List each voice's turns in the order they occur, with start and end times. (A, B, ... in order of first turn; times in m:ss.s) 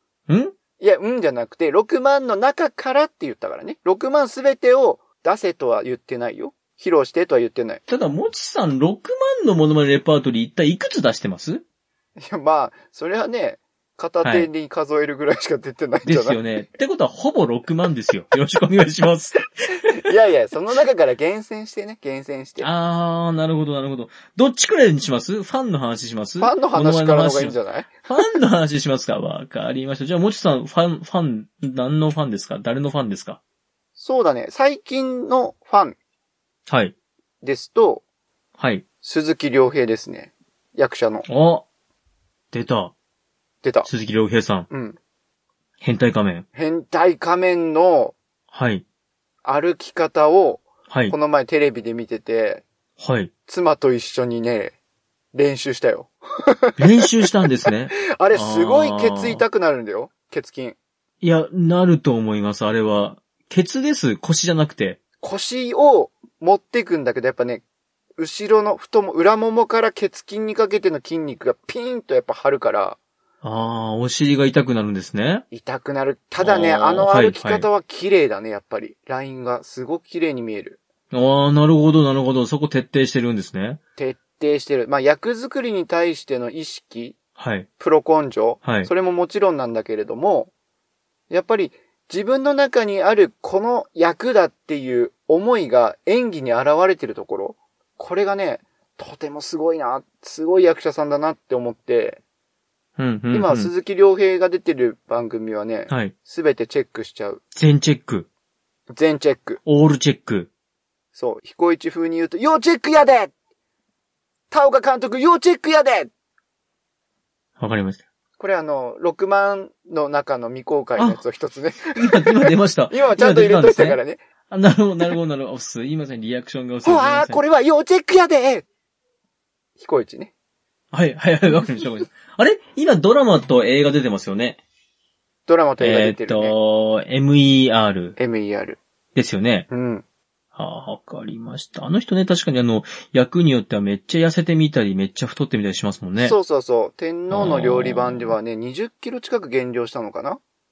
0:00.3-0:00.5 A
0:00.8-0:07.8 B
0:07.9-0:11.6 A
0:12.2-0:16.4 B
0:14.2-0:14.5 A
0:16.0-0:19.5 A
0:20.0-0:22.7 B
0:22.6-0:33.4 A
0:26.4-0:28.3 B
0:34.0-0:36.0 B
0:36.7-0:36.9 A
0:37.4-0:38.0 B
0:38.6-0:38.8 A
0:39.0-0:41.3 B
0:41.3-0:41.6 A
0:42.5-0:42.9 A
0:43.6-0:43.9 B
0:43.8-0:44.7 A
0:44.7-0:45.0 B
0:45.8-0:46.4 A
0:46.5-0:48.2 B
0:48.5-0:48.8 A
0:49.4-0:52.6 B
0:50.9-0:51.1 A
0:53.0-0:53.3 A
0:53.5-0:54.7 B
0:55.3-1:00.8 B
0:56.8-0:59.4 A
1:01.2-1:05.0 A
1:05.2-1:07.6 B
1:08.2-1:13.0 B
1:13.4-1:15.4 A
1:15.5-1:20.8 B
1:16.4-1:17.7 A
1:21.1-1:23.8 A
1:24.0-1:27.2 B
1:27.4-1:27.7 A
1:27.8-1:30.5 B
1:28.6-1:28.9 A
1:31.3-1:42.2 B
1:43.0-1:43.7 A
1:43.3-1:47.4 B
1:45.9-1:46.1 A
1:47.5-1:48.3 A
1:48.9-1:49.6 B
1:49.6-1:50.5 A
1:51.1-1:53.3 B
1:54.5-1:56.1 B
1:57.6-1:58.0 A
1:58.4-2:04.2 B
2:01.0-2:01.2 A
2:01.9-2:07.4 A
2:06.8-2:08.6 B
2:09.8-2:10.3 B
2:10.9-2:14.6 A
2:15.5-2:16.5 B
2:15.8-2:18.2 A
2:18.2-2:18.8 B
2:19.1-2:19.7 A
2:19.7-2:20.0 B
2:20.5-2:26.4 A
2:26.2-2:30.4 B
2:27.3-2:28.4 A